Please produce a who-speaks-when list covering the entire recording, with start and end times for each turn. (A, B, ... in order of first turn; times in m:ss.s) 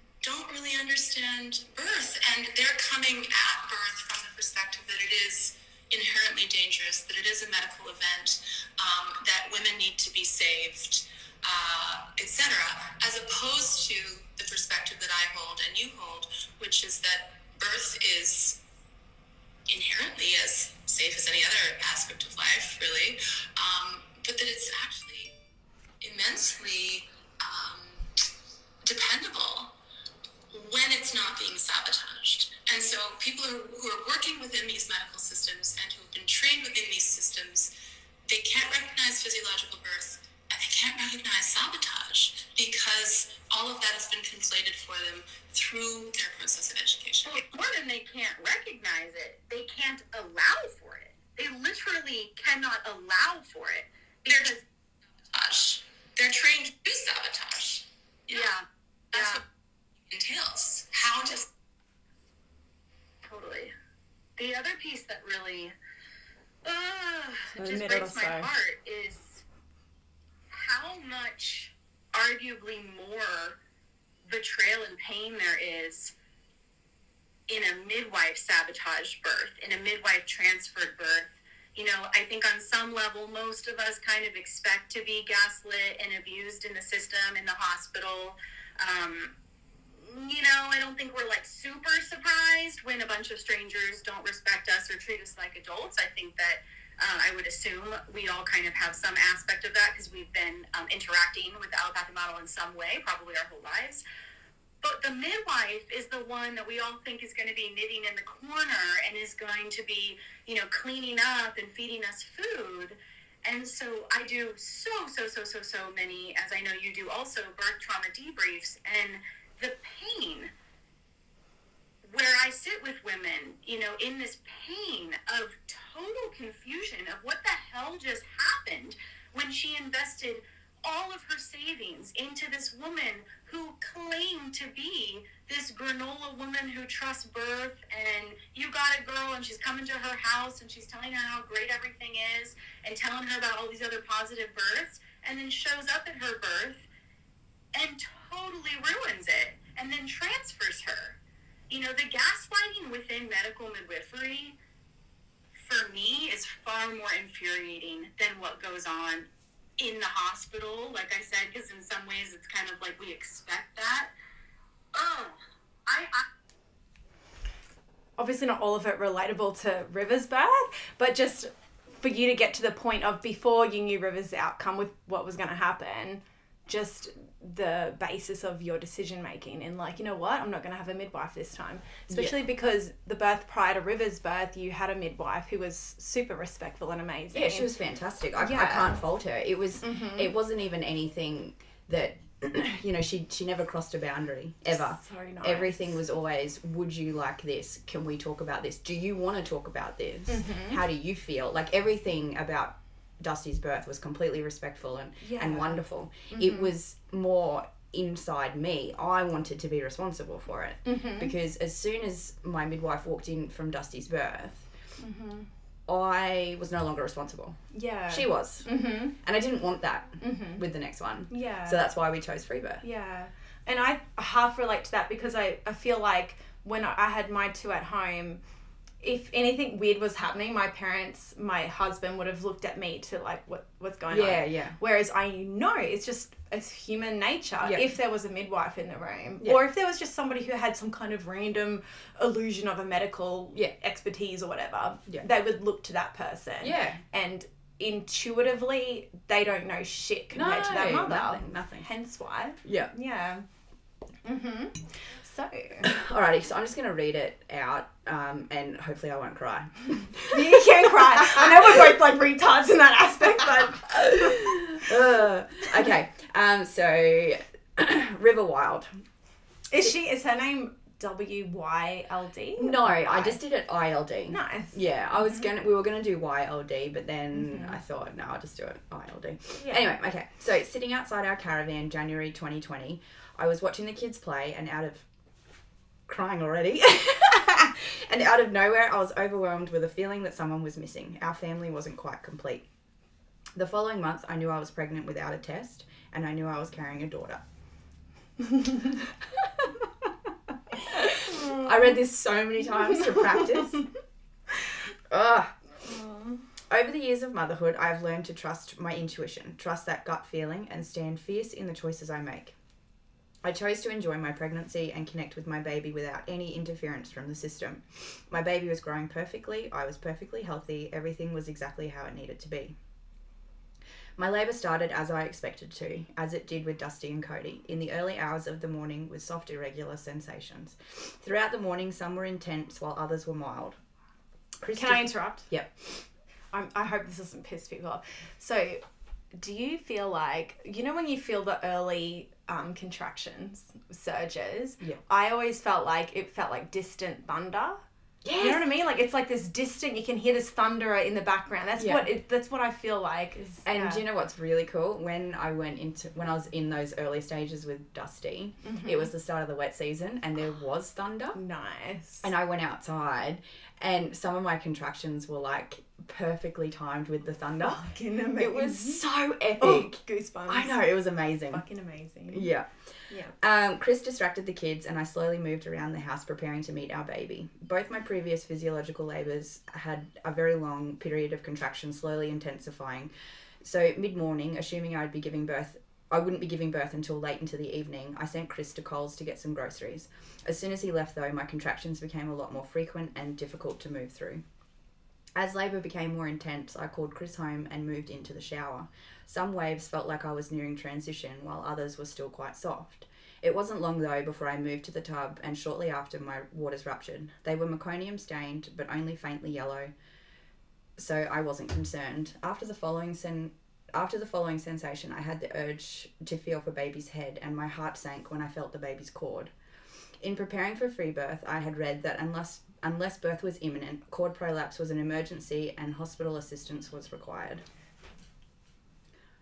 0:00.2-0:18.6 A
0:19.7-0:25.3 A
0:26.0-0:28.0 A
0:28.8-0:29.7 A
0:30.5-0:37.7 A
0:38.3-0:47.3 A
0:47.2-0:54.6 B
0:55.3-0:58.5 A
0:58.3-0:58.6 B
0:59.1-0:59.4 A
0:59.1-0:59.4 B
1:00.1-1:01.4 A
1:03.2-1:03.7 B
1:04.4-1:05.7 B
1:06.6-1:09.4 B
1:07.5-1:08.5 C
1:10.5-1:13.6 B
1:14.3-1:16.1 B
1:17.5-1:29.3 B
1:30.0-1:44.0 B
1:44.8-2:00.5 B
2:02.0-2:26.8 B
2:27.7-2:31.2 B
2:31.7-2:34.6 B
2:35.6-2:39.3 B
2:39.8-2:44.1 B
2:44.9-2:45.4 B
2:45.9-2:46.2 B
2:48.2-3:07.7 C
3:02.1-3:02.3 D
3:07.3-3:34.7 D
3:08.4-3:09.0 C
3:09.8-3:10.3 C
3:14.7-3:16.0 C
3:20.3-3:20.8 C
3:25.2-3:26.7 C
3:30.8-3:31.3 C
3:35.0-3:35.5 C
3:35.9-3:37.6 D
3:37.7-3:39.1 C
3:38.1-3:42.8 D
3:40.2-3:40.6 C
3:41.3-3:41.8 C
3:42.8-3:48.4 C
3:49.0-4:13.4 C
3:54.1-3:54.7 D
4:06.6-4:07.0 D
4:10.3-4:11.9 D
4:12.6-4:12.9 D
4:14.2-4:15.9 C
4:15.8-4:21.9 D
4:20.3-4:24.7 C
4:23.4-4:28.9 D
4:29.7-4:33.4 C
4:32.6-4:45.1 D
4:34.3-4:35.4 C
4:37.4-4:37.7 C
4:46.1-4:52.6 D
4:53.5-4:57.4 D
5:00.8-5:03.8 D
5:05.1-5:05.5 D
5:05.8-5:06.4 C
5:06.7-5:12.5 D
5:13.4-5:22.7 D
5:24.2-5:33.8 D
5:34.6-5:36.0 D
5:34.7-5:35.5 C
5:36.5-5:38.8 C
5:39.3-5:47.8 C
5:48.2-5:48.6 D
5:48.4-5:54.0 C
5:51.8-5:52.0 D
5:53.6-6:01.4 D
5:58.6-5:59.1 C
6:01.3-6:02.3 C
6:02.2-6:07.8 D
6:07.6-6:09.0 C
6:08.4-6:11.6 D
6:09.6-6:10.8 C
6:11.5-6:12.5 C
6:12.3-6:12.7 D
6:13.1-6:13.3 C
6:13.4-6:23.1 D
6:23.6-6:34.4 D
6:35.3-6:49.9 D
6:51.0-6:59.5 D
7:00.2-7:07.6 D